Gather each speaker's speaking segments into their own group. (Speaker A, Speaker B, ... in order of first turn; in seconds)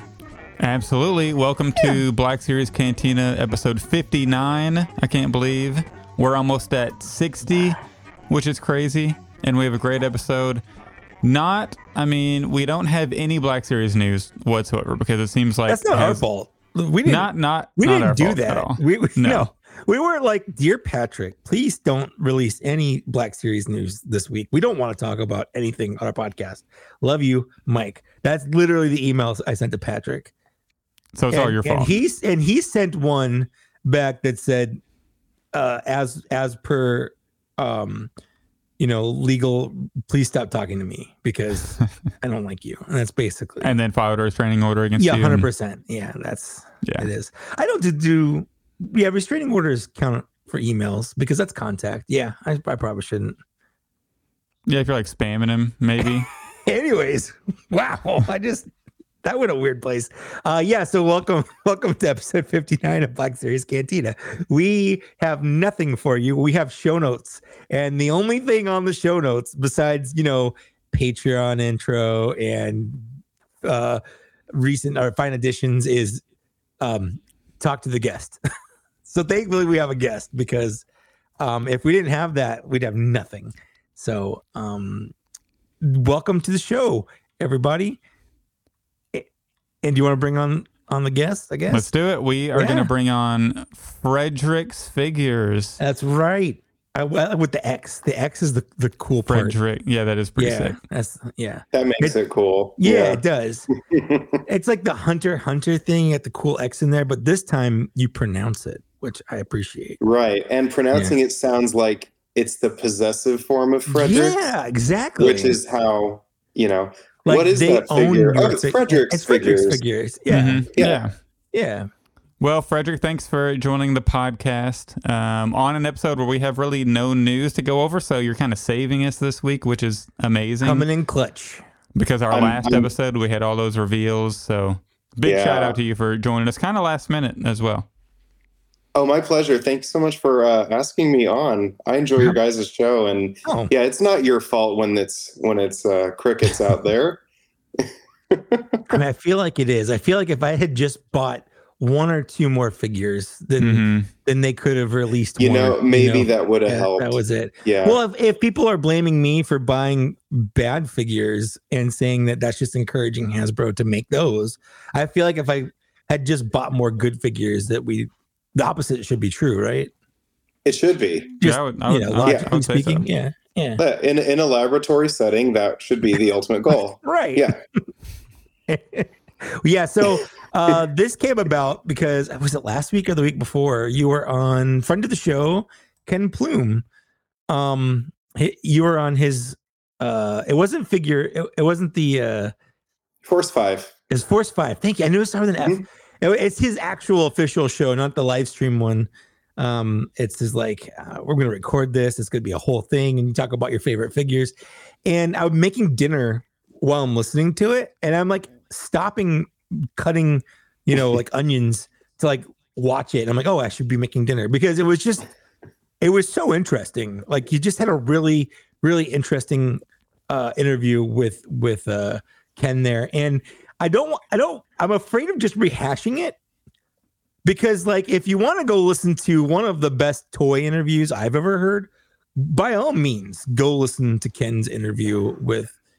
Speaker A: 0.6-10.6, 11.2-16.2, 17.1-19.5, 31.1-32.0, 43.6-45.5, 54.7-56.3, 91.7-95.8, 99.3-100.7, 120.3-121.1, 122.4-130.9, 131.9-137.9, 153.6-154.1, 171.4-173.1
Speaker B: 15.7-30.3, 31.3-34.8, 35.5-38.1, 38.8-43.7, 45.0-53.4, 56.6-58.7, 59.2-73.0, 73.6-74.0, 74.5-76.2, 76.8-78.4, 79.0-80.8, 81.4-85.1, 85.8-88.0, 89.8-91.9, 92.5-92.9, 95.8-99.6, 100.4-102.2, 102.8-103.7, 104.5-110.0, 113.9-115.6, 117.2-120.7, 121.5-121.9, 130.6-131.6, 143.4-143.7, 148.9-169.9, 171.4-173.8, 177.0-177.6, 178.7-186.8, 187.5-192.5, 194.1-204.5, 205.0-215.2, 216.0-226.4, 227.4-235.7
Speaker C: 101.7-103.2, 103.9-104.4, 110.0-114.4, 115.2-119.8, 120.7-121.0, 132.3-132.9, 135.2-135.8, 138.9-147.2, 147.8-148.8, 155.4-158.0, 170.6-171.3, 172.2-172.5, 173.8-177.6, 193.2-193.9